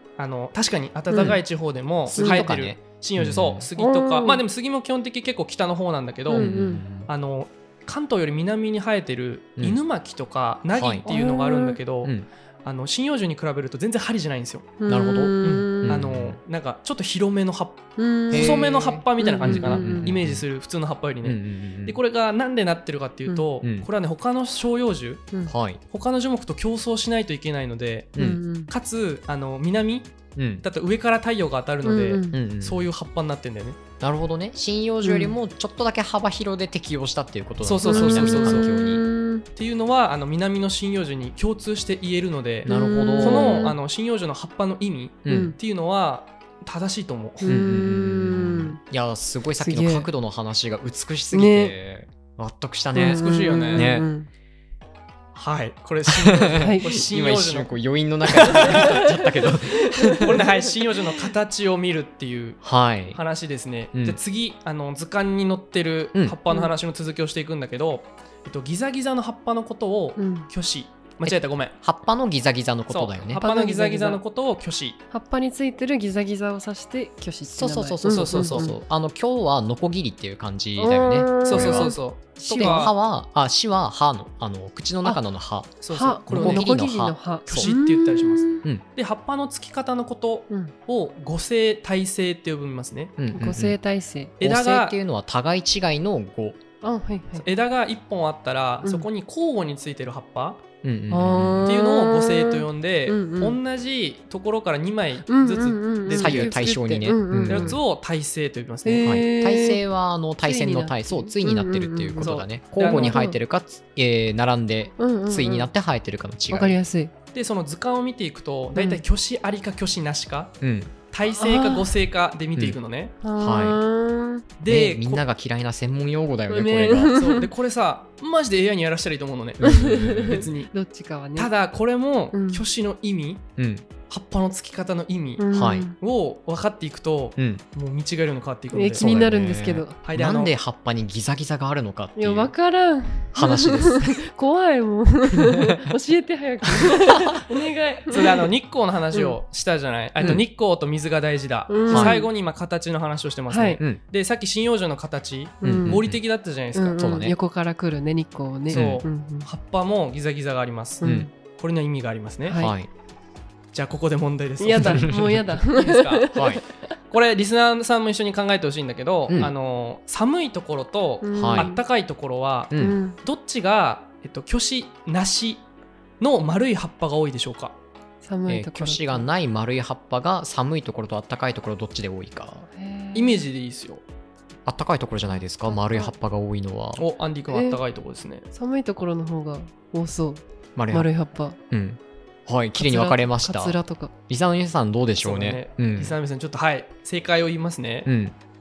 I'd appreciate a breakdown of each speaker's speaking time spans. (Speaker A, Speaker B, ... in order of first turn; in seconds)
Speaker A: 0.2-6.5, 7.0-14.8, 15.4-25.3, 25.9-33.8, 37.6-38.7, 39.5-47.6, 53.1-53.9, 55.3-57.8, 58.3-58.9, 60.2-71.7, 72.9-75.0, 78.0-78.7, 81.5-82.9, 85.8-86.7, 87.5-93.2, 94.4-95.0, 97.4-100.6, 101.6-109.2, 112.2-113.2, 117.3-120.5, 121.1-123.1, 124.6-125.2, 127.1-130.7, 131.3-133.4, 134.1-139.0, 140.0-140.5, 148.1-157.0, 158.7-162.6, 163.7-166.5, 167.1-175.6, 176.2-177.8, 183.1-184.0, 186.9-188.5, 195.2-198.1
Speaker B: 1.1-1.4, 2.2-2.5, 3.8-4.4, 6.3-6.8, 11.0-11.8, 14.8-16.0, 18.0-18.6, 19.2-20.1, 28.2-28.7, 31.8-32.4, 35.0-35.3, 37.8-39.4, 42.6-43.8, 45.2-45.6, 47.4-48.8, 49.6-50.1, 51.3-51.7, 52.9-54.3, 56.6-56.9, 58.4-60.5, 70.2-70.5, 73.4-74.2, 75.1-78.7, 80.8-82.9, 85.9-88.6, 93.3-94.3, 96.8-97.5, 101.1-103.6, 105.3-107.8, 108.8-109.8, 110.4-113.3, 115.0-115.7, 116.5-117.1, 118.8-119.0, 121.4-121.9, 123.2-124.5, 126.5-127.5, 129.6-131.5, 132.3-132.6, 135.4-135.9, 138.7-140.0, 142.2-148.5, 151.7-152.3, 153.5-153.8, 155.6-156.0, 156.7-159.5, 161.0-161.3, 162.4-162.7, 164.6-166.9, 171.2-171.8, 172.8-173.2, 178.2-179.3, 182.7-183.4, 185.6-186.1, 187.5-187.8, 188.5-191.6, 192.8-194.1
Speaker C: 2.1-3.7, 6.3-7.1, 10.7-11.0, 14.9-16.4, 18.3-20.4, 21.2-22.0, 23.6-23.9, 25.4-25.8, 28.1-28.4, 30.4-30.6, 32.3-32.9, 34.0-39.0, 42.6-43.7, 45.2-45.5, 47.4-54.1, 56.1-60.4, 62.6-63.2, 63.9-64.2, 71.2-73.4, 77.5-87.7, 93.2-93.8, 94.4-96.6, 100.8-101.7, 106.1-107.8, 109.0-116.8, 120.6-120.9, 123.3-123.8, 124.7-127.2, 129.6-130.5, 133.6-133.9, 135.5-135.9, 137.4-137.6, 139.0-142.5, 143.3-144.2, 145.5-145.8, 150.2-150.4, 151.9-152.2, 155.6-156.2, 157.0-157.3, 158.7-159.0, 161.0-161.3, 162.5-162.9, 164.7-165.4, 166.3-166.6, 169.3-169.5, 171.3-171.7, 172.7-173.0, 178.5-182.7, 184.7-187.0, 190.8-191.1, 191.7-193.8, 194.3-196.2, 198.1-198.3